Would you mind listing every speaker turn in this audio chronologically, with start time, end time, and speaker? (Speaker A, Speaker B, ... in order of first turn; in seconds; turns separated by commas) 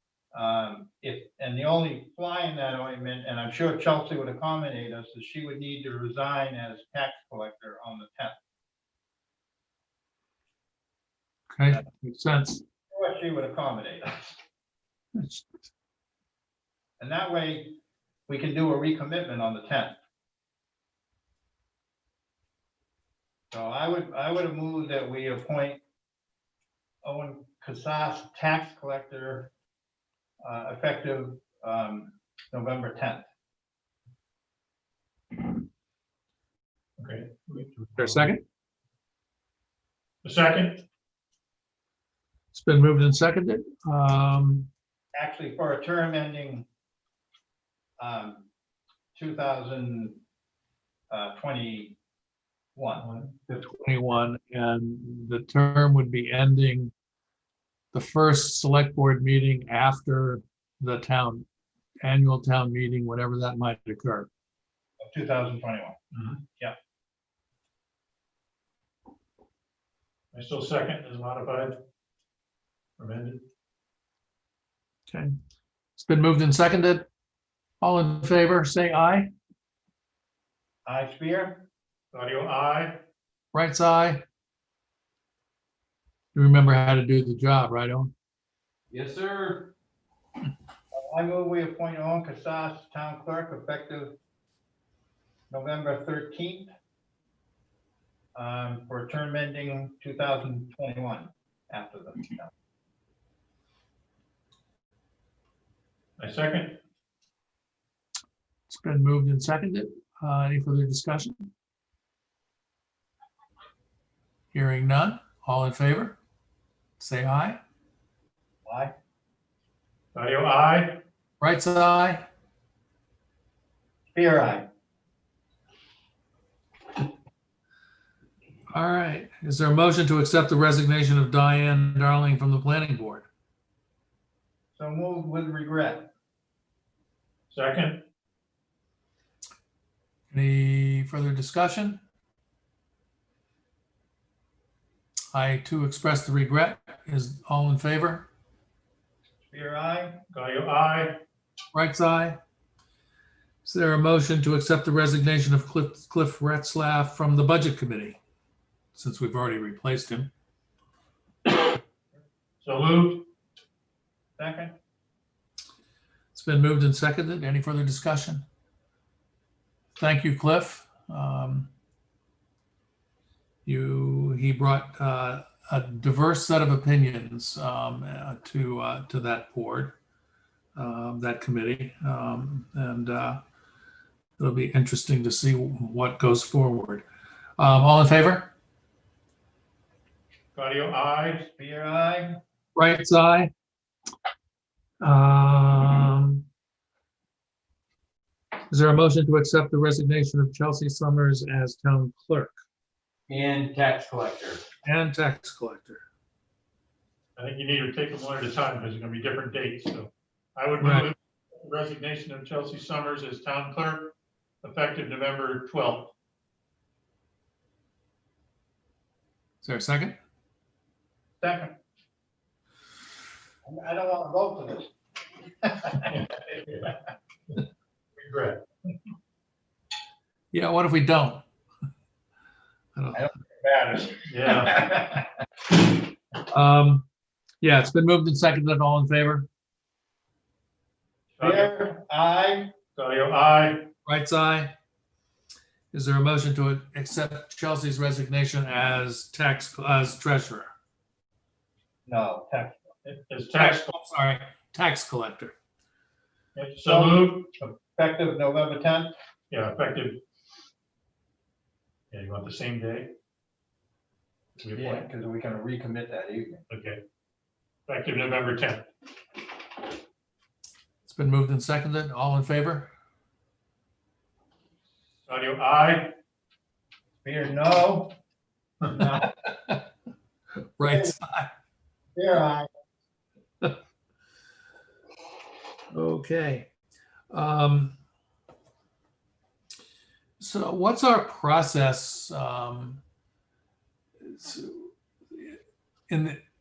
Speaker A: 0.3-8.3, Speaker B: 11.5-12.6, Speaker A: 12.9-14.3, Speaker B: 15.2-15.4, Speaker A: 17.0-17.8, Speaker A: 18.3-19.9, Speaker A: 23.5-25.8, Speaker A: 27.0-29.5, Speaker A: 30.4-33.2, Speaker C: 37.0-38.3, Speaker B: 38.0-38.4, Speaker C: 40.2-40.8, Speaker B: 42.5-44.7, Speaker A: 45.1-46.7, Speaker A: 48.0-48.5, Speaker A: 49.1-50.2, Speaker A: 51.1-52.0, Speaker A: 52.8-53.6, Speaker C: 53.0-53.4, Speaker B: 53.6-56.9, Speaker B: 57.9-61.4, Speaker B: 62.0-64.3, Speaker A: 65.0-66.0, Speaker C: 66.1-66.4, Speaker C: 70.3-71.8, Speaker C: 73.0-73.4, Speaker B: 76.0-77.1, Speaker B: 77.8-79.3, Speaker A: 80.8-81.6, Speaker C: 82.1-83.0, Speaker B: 83.5-84.2, Speaker B: 86.3-88.1, Speaker D: 88.9-89.7, Speaker A: 90.9-94.2, Speaker A: 95.5-96.7, Speaker A: 98.3-102.5, Speaker C: 106.2-106.8, Speaker B: 108.7-111.5, Speaker B: 114.5-116.2, Speaker B: 117.0-117.6, Speaker A: 118.7-118.9, Speaker C: 120.1-121.0, Speaker B: 121.4-122.2, Speaker A: 124.1-124.6, Speaker B: 128.7-133.3, Speaker A: 134.8-136.1, Speaker C: 137.5-138.0, Speaker B: 140.3-142.0, Speaker B: 145.3-148.3, Speaker A: 149.5-150.2, Speaker C: 150.3-151.2, Speaker B: 151.7-152.4, Speaker B: 153.6-158.2, Speaker B: 158.9-160.3, Speaker C: 162.6-163.3, Speaker A: 164.4-164.7, Speaker B: 166.3-168.4, Speaker B: 169.9-171.7, Speaker B: 173.6-179.9, Speaker B: 180.7-183.4, Speaker B: 184.4-187.0, Speaker B: 187.6-188.5, Speaker C: 190.5-191.4, Speaker A: 191.4-192.4, Speaker B: 192.8-193.5, Speaker B: 195.0-196.4, Speaker B: 198.7-202.5, Speaker D: 203.3-204.6, Speaker B: 204.8-206.0, Speaker C: 207.4-216.1, Speaker B: 210.8-211.1, Speaker B: 219.6-220.2, Speaker A: 221.4-221.7, Speaker A: 223.6-224.9, Speaker A: 225.6-226.1, Speaker C: 226.1-226.9, Speaker C: 228.2-228.6, Speaker B: 230.5-231.4, Speaker B: 232.9-233.3, Speaker A: 233.1-235.2, Speaker C: 234.3-234.9, Speaker B: 236.5-237.1, Speaker B: 237.6-239.5, Speaker C: 241.4-241.7, Speaker A: 241.4-242.7, Speaker C: 242.9-243.9, Speaker B: 244.0-244.7, Speaker B: 245.9-250.7, Speaker A: 252.1-252.9, Speaker C: 253.0-253.9, Speaker B: 253.6-255.5, Speaker C: 256.6-257.5, Speaker A: 256.8-259.1, Speaker C: 259.5-260.2, Speaker C: 262.1-263.1, Speaker C: 264.6-265.1, Speaker A: 264.7-266.6, Speaker C: 266.7-267.0, Speaker C: 267.9-268.9, Speaker B: 271.1-272.9, Speaker C: 275.3-276.1, Speaker A: 277.2-278.1, Speaker A: 278.9-279.3, Speaker B: 279.4-279.8, Speaker B: 280.8-281.5, Speaker A: 280.9-281.1, Speaker A: 282.1-282.7, Speaker B: 285.9-286.7, Speaker B: 287.3-288.0, Speaker B: 290.4-293.0, Speaker B: 294.2-295.6, Speaker B: 296.1-296.4